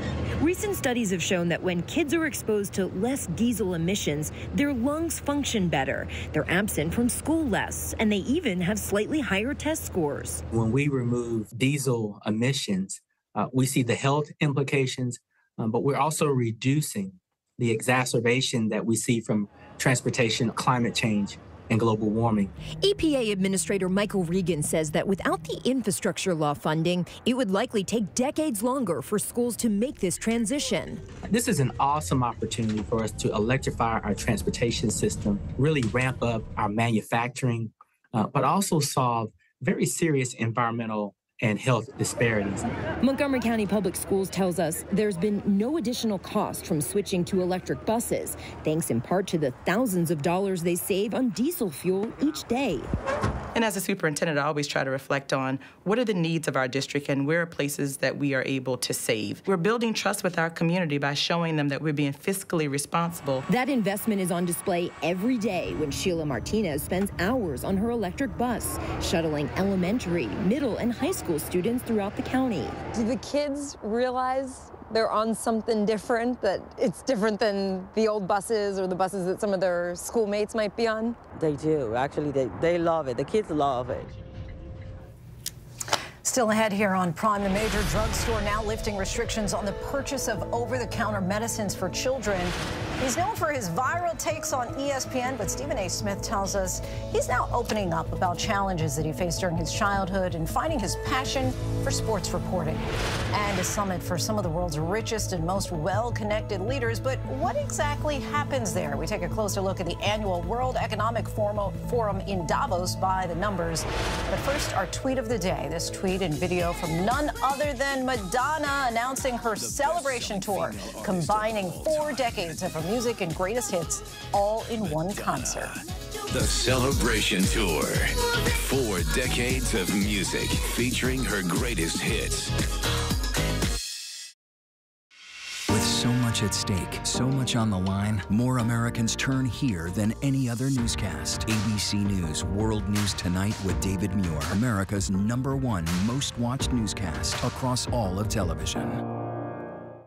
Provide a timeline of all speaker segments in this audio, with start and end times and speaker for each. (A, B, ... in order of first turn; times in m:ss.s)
0:00.4-0:10.4 A
0:10.5-0:22.5 B
0:22.8-0:31.0 A
0:31.3-0:42.6 B
0:43.0-0:52.9 A
0:53.6-1:03.4 C
1:03.5-1:12.8 A
1:12.9-1:21.2 D
1:21.4-1:24.1 E
1:26.2-2:05.8 F
2:00.4-2:02.2 G
2:07.7-2:08.0 H
2:08.7-2:12.5 H
2:15.7-2:29.0 G